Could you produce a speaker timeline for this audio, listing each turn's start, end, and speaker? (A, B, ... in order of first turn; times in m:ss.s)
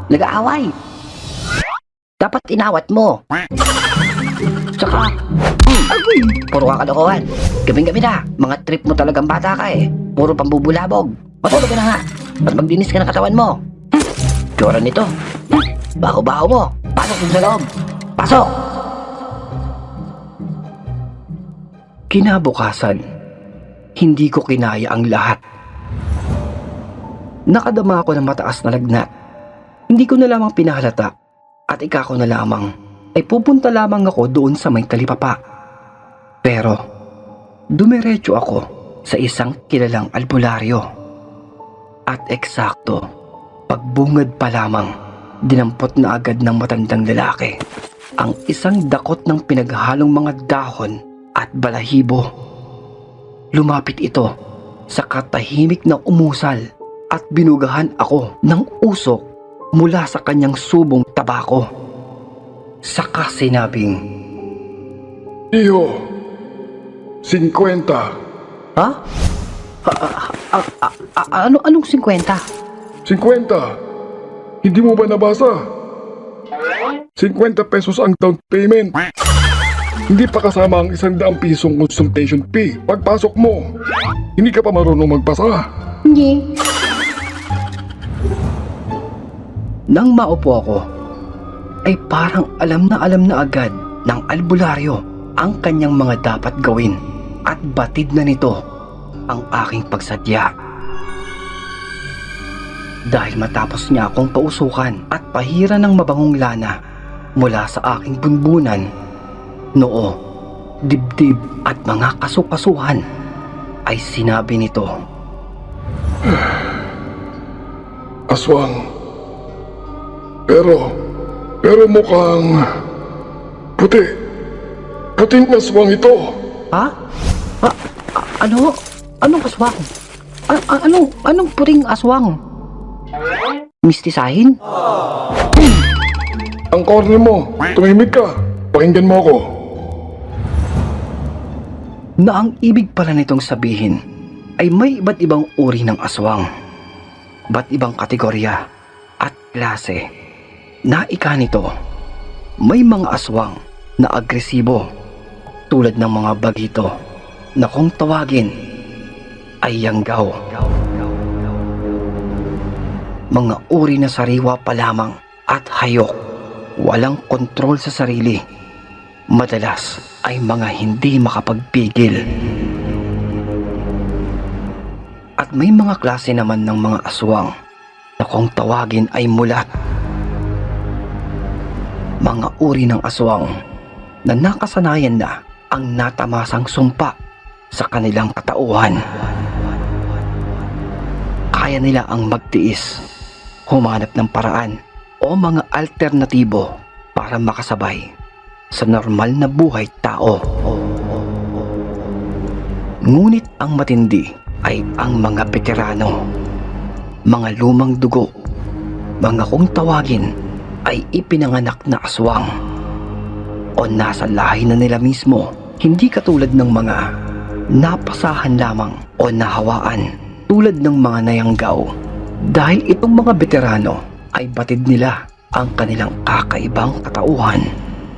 0:00.1-0:00.7 A
0:02.2-0:03.2 A
0:04.8-0:05.1 A
0:05.7-0:13.6 A
0:05.9-0:06.4 B
0:14.6-0:17.6 A
0:18.2-0:18.5 A
0:22.1-0:23.0 B
0:24.0-0:25.4 B
0:27.5-0:29.1 B
0:29.9-0:31.1 B
0:31.7-0:35.4 B
0:36.4-0:36.8 B
0:37.8-0:40.8 B
0:42.1-0:43.0 B
0:43.7-0:44.9 B
0:45.5-0:47.6 B
0:48.2-0:52.2 B
0:53.6-0:54.3 B
0:55.0-0:56.6 B
0:57.2-0:59.2 B
0:59.8-1:01.7 B
1:02.9-1:04.0 B
1:05.5-1:06.0 C
1:07.2-1:08.1 C
1:09.8-1:12.4 B
1:13.1-1:13.7 C
1:14.6-1:15.6 C
1:17.2-1:19.0 C
1:20.1-1:23.7 C
1:24.4-1:25.7 C
1:26.1-1:26.4 B
1:30.0-1:30.8 B
1:31.9-1:37.0 B
1:37.5-1:38.6 B
1:39.3-1:40.5 B
1:43.1-1:46.7 B
1:47.4-1:48.8 B
1:49.8-1:50.1 B
1:50.9-1:53.0 B
1:53.9-1:54.9 B
1:56.3-1:56.7 C
1:58.3-1:58.8 C
2:00.5-2:00.9 C
2:01.6-2:02.6 C
2:03.8-2:04.1 C
2:05.2-2:06.4 C
2:07.6-2:09.9 B
2:10.5-2:12.4 B
2:13.9-2:14.6 B
2:16.7-2:19.4 C
2:22.2-2:24.0 B
2:24.6-2:26.5 B
2:27.5-2:28.6 B
2:29.2-2:30.0 B
2:30.9-2:31.7 B
2:32.7-2:34.8 B
2:35.7-2:36.9 B
2:37.6-2:38.5 B
2:39.6-2:40.6 B
2:43.4-2:46.1 B
2:46.8-2:48.4 B
2:49.4-2:52.2 B
2:55.4-2:57.5 B
2:58.2-2:59.7 B
3:02.2-3:03.5 B
3:04.3-3:07.1 B
3:07.8-3:09.0 B
3:11.6-3:12.9 B
3:13.7-3:14.7 B
3:15.2-3:18.1 B
3:18.8-3:20.6 B
3:23.1-3:26.2 B
3:27.3-3:28.3 B
3:29.2-3:30.3 B
3:30.9-3:32.5 B
3:33.8-3:37.0 B
3:37.8-3:41.8 B
3:42.6-3:47.6 B